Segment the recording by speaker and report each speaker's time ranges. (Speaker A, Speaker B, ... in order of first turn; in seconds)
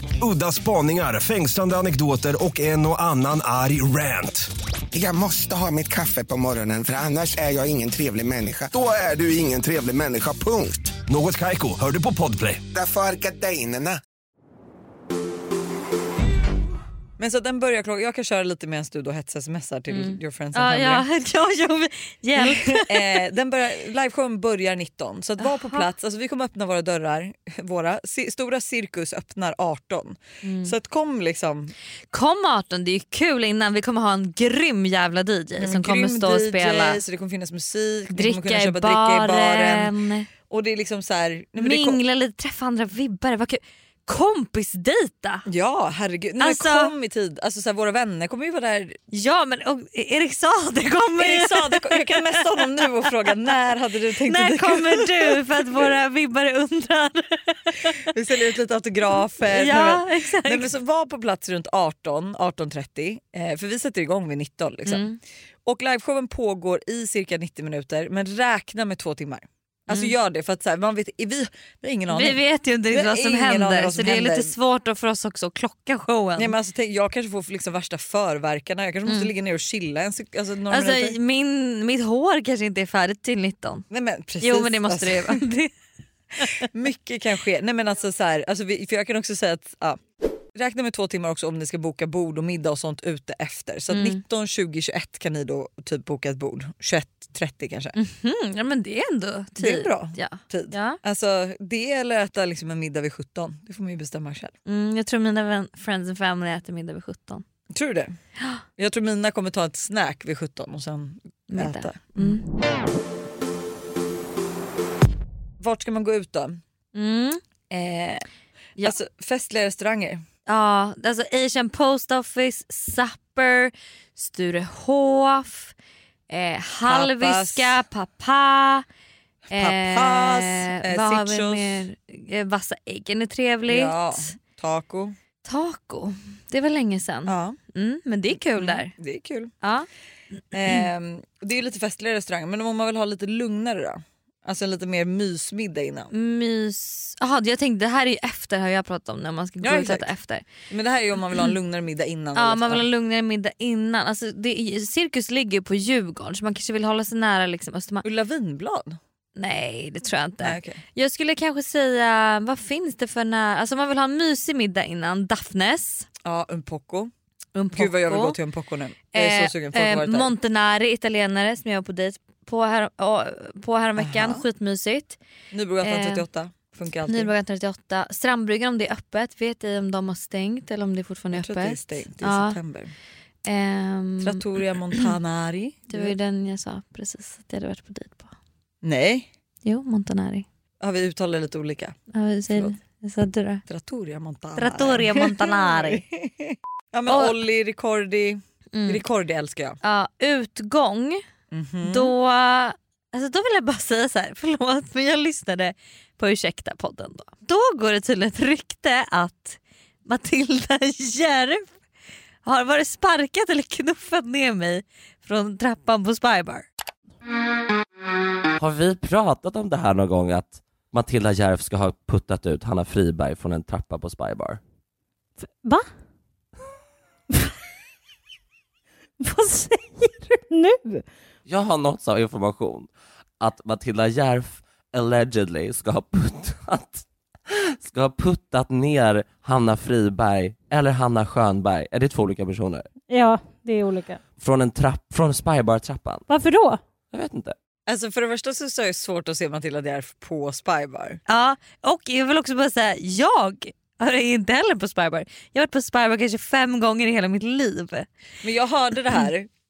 Speaker A: 0.2-4.5, 11.0-12.6
Speaker B: 4.9-11.0, 12.7-14.0
Speaker C: 17.2-21.1, 22.4-31.7, 35.6-39.9, 40.5-42.0, 45.5-49.0, 51.2-55.9, 58.0-65.0, 65.7-74.5, 76.4-81.2, 83.9-85.4, 86.6-90.0, 90.5-97.9, 99.6-104.5, 107.7-108.2, 108.8-112.4, 115.6-116.6, 117.7-118.2, 118.8-120.2, 126.9-127.8, 129.5-131.9, 133.7-135.1, 137.2-137.6, 138.3-139.5, 140.5-146.1, 149.6-150.1, 150.7-152.8, 158.0-159.0, 160.4-160.8, 166.2-167.1, 167.7-170.3, 174.0-174.4, 175.5-177.3, 181.3-182.9, 184.2-186.1, 188.8-189.3, 190.8-192.0, 192.5-192.8, 193.7-199.8, 201.5-202.1, 247.9-251.2, 258.4-259.5
Speaker D: 19.9-23.2, 25.4-25.9, 30.4-30.7, 32.1-37.0, 38.1-40.3, 41.5-45.4, 46.4-46.9, 49.1-53.3, 54.2-58.0, 59.4-60.7, 64.8-65.2, 69.9-70.1, 72.1-76.5, 80.7-83.8, 84.4-85.7, 86.4-86.6, 93.9-94.2, 97.9-101.0, 104.7-107.4, 111.5-112.5, 116.9-117.4, 120.5-125.7, 126.3-128.8, 129.5-134.3, 135.4-138.9, 139.6-139.9, 146.1-150.5, 152.3-158.0, 159.4-166.1, 167.5-168.4, 169.1-175.2, 175.8-176.2, 177.1-182.6, 183.4-184.4, 185.9-188.3, 189.6-190.4, 192.1-193.6, 194.6-196.0, 197.1-197.4, 198.7-199.0, 199.8-201.2, 201.8-211.7, 212.4-216.7, 251.3-258.1
Speaker E: 218.6-224.6, 231.4-242.9, 244.3-246.2, 247.1-247.6
Speaker F: 225.6-225.9, 229.2-231.1, 243.1-244.2, 246.3-246.8